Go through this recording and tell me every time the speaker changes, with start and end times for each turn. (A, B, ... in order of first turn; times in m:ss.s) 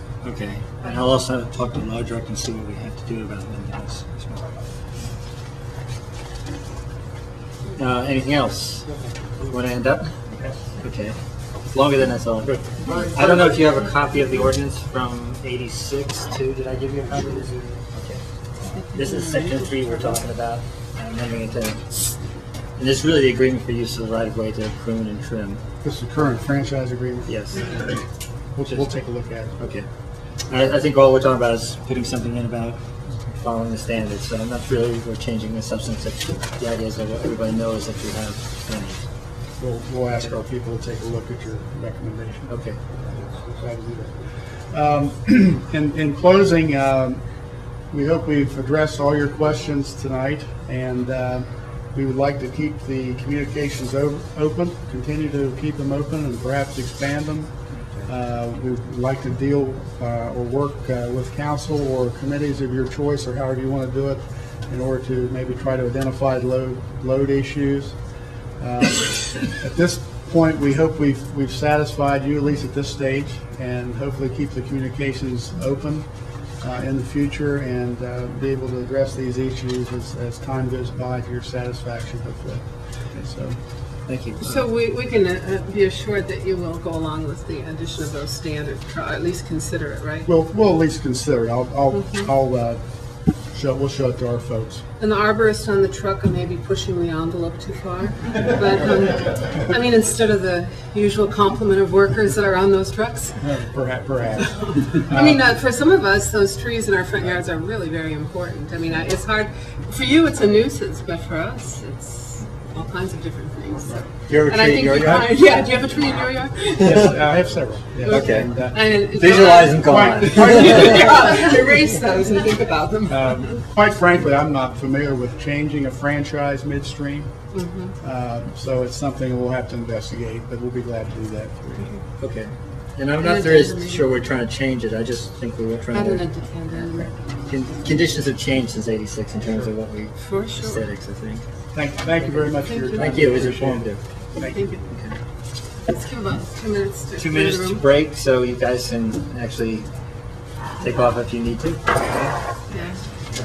0:00.2-0:04.5 A
0:07.8-0:08.9 A
0:09.5-0:11.2 A
0:11.7-0:18.2 A
0:18.6-0:20.2 B
0:19.0-0:22.0 A
0:22.8-0:25.6 A
0:25.8-0:28.0 C
0:27.3-0:27.7 A
0:28.6-0:29.7 C
0:29.6-0:29.9 A
0:30.5-0:39.0 A
0:39.6-0:42.5 C
0:42.5-0:42.8 A
0:43.0-0:47.2 C
0:47.9-1:08.0 C
1:08.6-1:16.1 C
1:16.6-1:23.6 C
1:24.1-1:24.6 A
1:24.4-1:30.3 B
1:30.3-1:32.8 C
1:31.9-1:32.3 B
1:33.5-1:34.8 C
1:35.0-1:43.4 B
1:43.4-1:45.4 C
1:44.6-1:57.2 B
1:54.3-1:55.4 A
1:56.8-1:58.9 C
1:58.0-2:03.5 B
1:58.1-1:58.5 A
1:59.1-2:01.0 A
1:59.8-2:01.3 C
2:03.1-2:07.3 C
2:07.5-2:07.9 B
2:08.0-2:12.0 C
2:12.2-2:16.3 A
2:13.2-2:14.1 B
2:15.9-2:17.2 B
2:17.5-2:21.4 A
2:20.3-2:20.8 B
2:21.7-2:24.6 C
2:22.6-2:23.3 B
2:23.0-2:24.0 A
2:24.4-2:24.9 B
2:24.9-2:25.2 A
2:25.9-2:27.9 B
2:27.2-2:29.9 A
2:30.8-2:32.3 A
2:32.7-2:33.0 B